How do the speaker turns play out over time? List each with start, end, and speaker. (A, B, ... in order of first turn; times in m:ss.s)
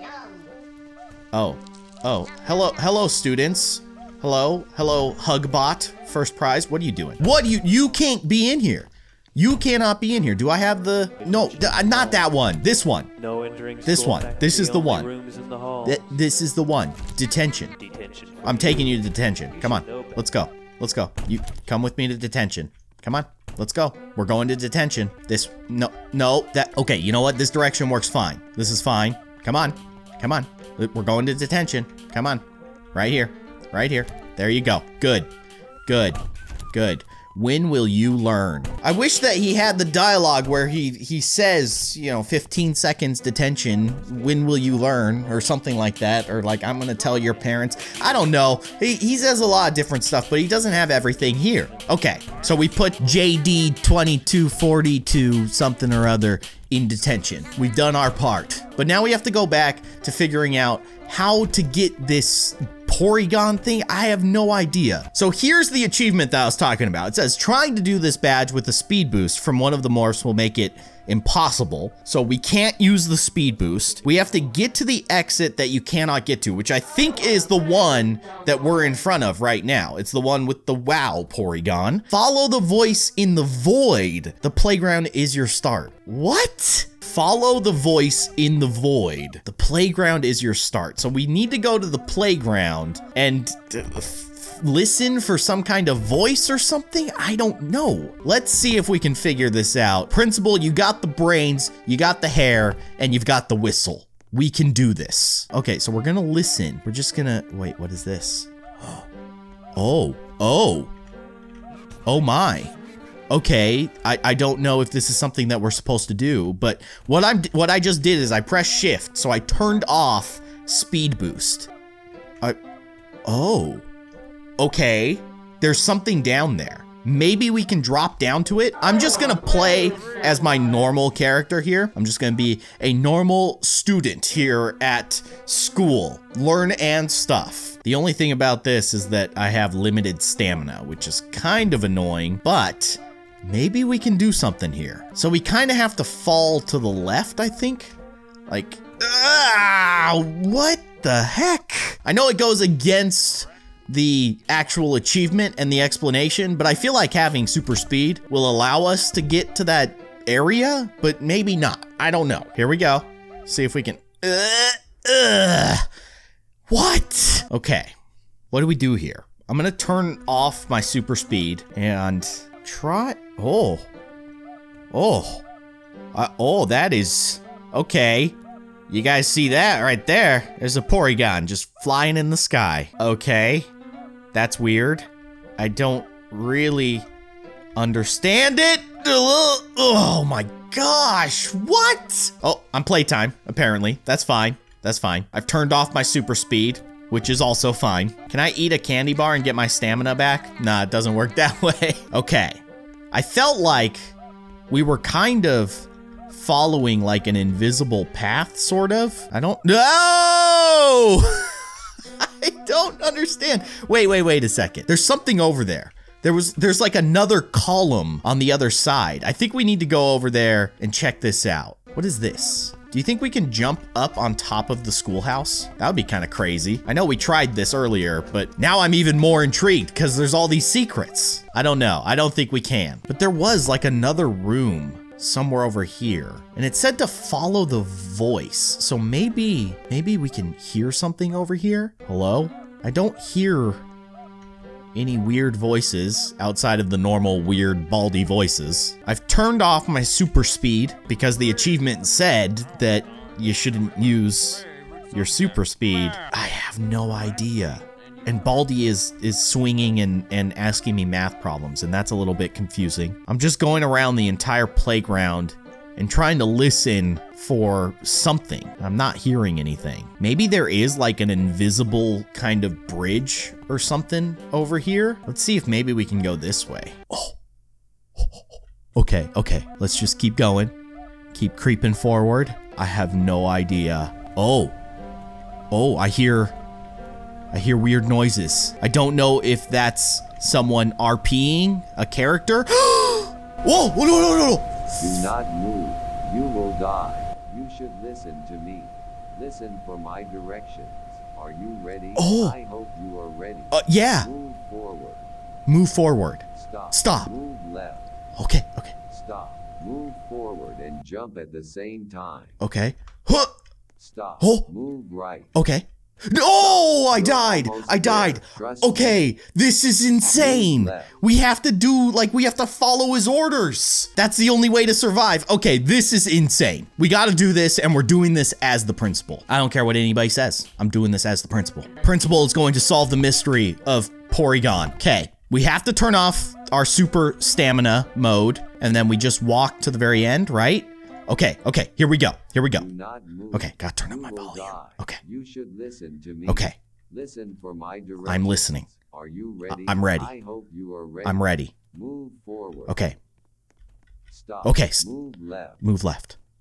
0:01.3-0:13.1 A
0:11.2-0:12.3 B
0:13.2-0:16.1 B
0:13.9-0:15.1 A
0:15.8-0:17.8 A
0:17.8-0:20.4 B
0:18.4-0:32.4 A
0:32.9-0:35.3 A
0:35.9-0:36.2 A
0:36.7-1:49.0 A
1:49.8-1:50.9 A
1:52.1-1:52.7 A
1:53.3-2:01.7 A
2:03.3-2:03.9 A
2:04.6-2:28.0 A
2:28.5-2:45.9 A
2:46.7-2:47.9 A
2:48.5-2:53.9 A
2:54.9-2:55.4 A
2:56.1-2:58.4 A
2:58.9-3:03.7 A
3:04.3-3:05.1 A
3:05.6-3:07.1 A
3:07.8-3:24.1 A
3:24.7-3:31.6 A
3:32.2-4:03.8 A
4:05.0-4:37.4 A
4:38.2-4:40.7 A
4:41.3-4:44.8 A
4:45.7-4:46.6 A
4:47.5-4:55.3 A
4:55.0-5:05.3 C
5:02.2-5:02.6 A
5:03.7-5:04.3 A
5:05.7-5:07.3 A
5:06.5-5:08.0 C
5:08.4-5:08.9 A
5:09.1-5:12.6 C
5:12.6-5:13.5 A
5:14.0-5:15.5 C
5:14.4-5:14.7 A
5:15.5-5:42.9 A
5:16.6-5:19.2 C
5:20.3-5:21.1 C
5:42.7-5:53.1 C
5:43.5-5:45.2 A
5:46.5-5:46.8 A
5:48.2-5:48.9 A
5:49.7-5:50.3 A
5:51.2-5:51.7 A
5:52.9-5:53.2 A
5:54.3-5:55.8 C
5:54.6-5:55.0 A
5:55.8-5:56.4 A